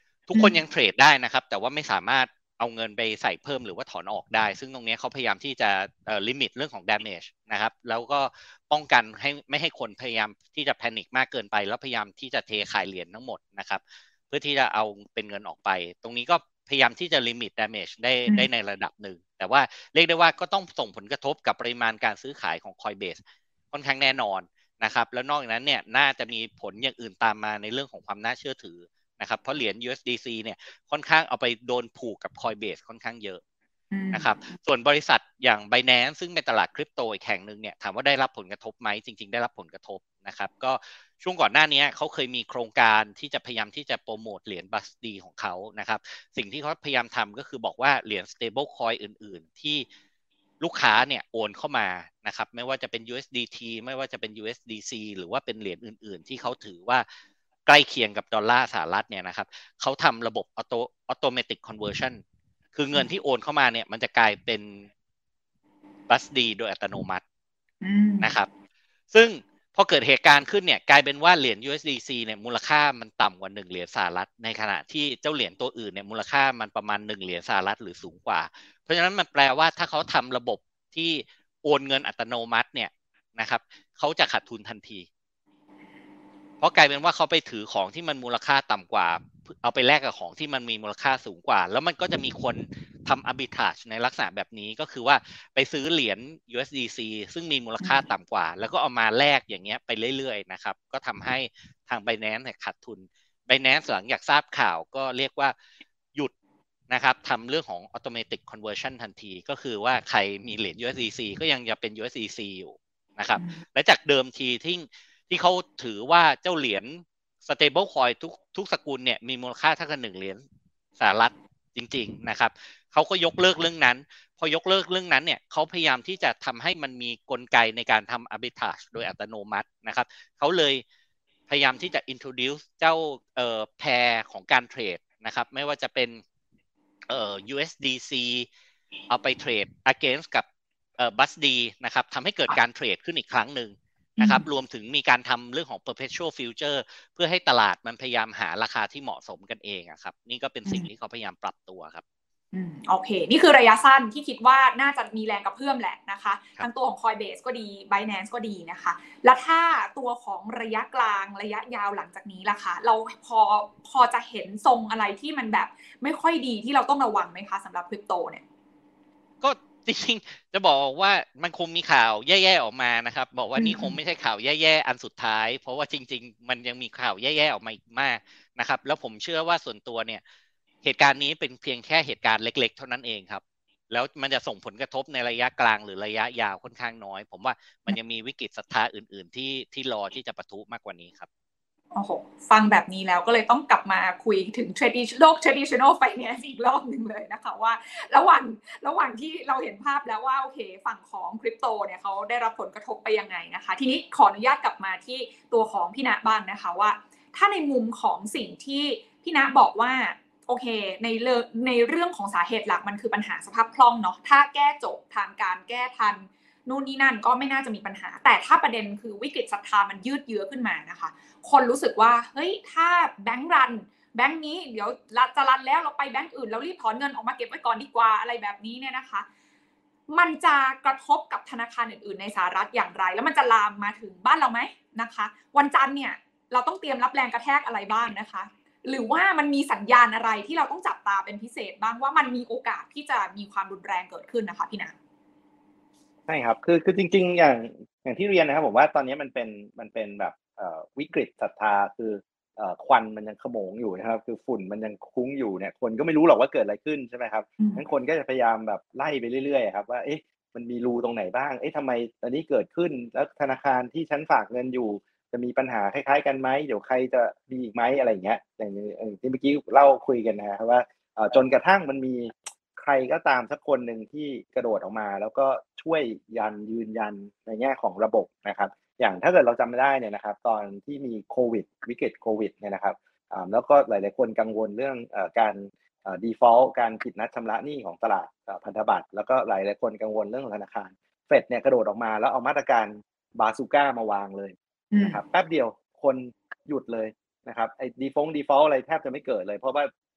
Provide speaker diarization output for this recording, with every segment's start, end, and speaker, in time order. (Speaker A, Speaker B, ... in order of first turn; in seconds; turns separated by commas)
Speaker A: 0.3-23.2, Speaker B: 0.3-0.6, Speaker A: 23.7-33.4, Speaker B: 33.9-34.3, Speaker A: 34.1-49.9, Speaker A: 50.6-57.0, Speaker A: 57.6-62.2, Speaker A: 62.7-64.9, Speaker A: 66.1-67.2, Speaker B: 67.8-68.3, Speaker A: 68.2-68.5, Speaker A: 69.1-85.1, Speaker A: 86.6-105.5, Speaker A: 106.9-120.4, Speaker B: 113.4-113.6, Speaker A: 121.0-130.8, Speaker A: 131.5-136.2, Speaker A: 137.1-138.5, Speaker A: 139.1-140.4, Speaker A: 141.0-152.0, Speaker B: 144.2-144.4, Speaker B: 152.5-168.4, Speaker A: 169.4-180.2, Speaker B: 173.6-174.0, Speaker A: 180.8-191.3, Speaker B: 191.9-229.2, Speaker B: 230.1-244.9, Speaker C: 246.3-299.9, Speaker B: 257.6-257.8, Speaker B: 294.9-295.2